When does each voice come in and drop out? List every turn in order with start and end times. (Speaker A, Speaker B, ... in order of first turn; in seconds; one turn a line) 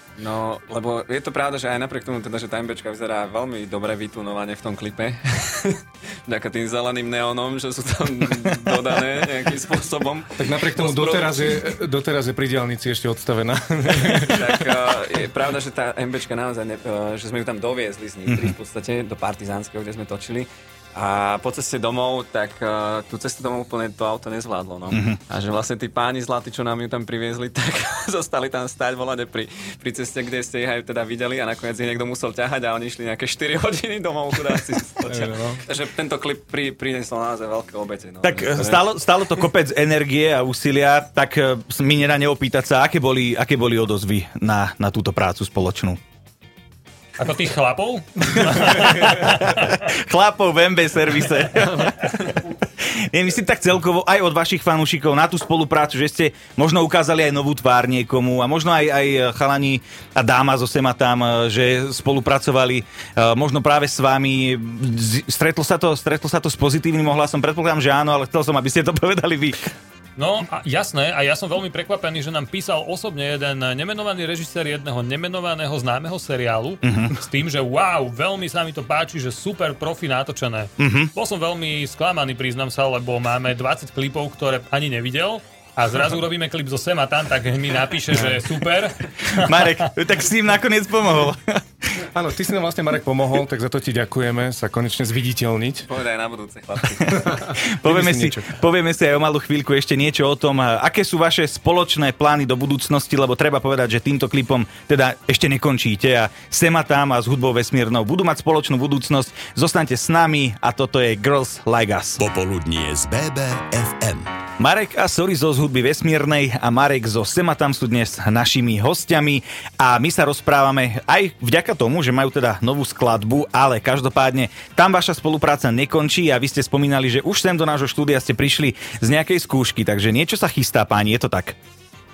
Speaker A: 0.2-11.7
Speaker B: 8.3-9.3
Speaker C: 10.4-14.7
Speaker A: 14.0-39.5
Speaker B: 18.3-18.5
Speaker B: 24.9-25.2
Speaker C: 35.0-35.6
Speaker B: 38.2-46.0
Speaker D: 47.2-49.8
Speaker B: 48.6-48.9
Speaker B: 49.5-69.7
Speaker D: 70.2-89.9
Speaker B: 76.8-77.2
Speaker B: 80.8-81.1
Speaker C: 88.1-88.4
Speaker B: 89.2-91.6
Speaker C: 92.0-95.9
Speaker A: 95.8-97.5
Speaker C: 97.0-98.5
Speaker B: 97.2-112.2
Speaker E: 112.2-114.3
Speaker B: 114.6-131.5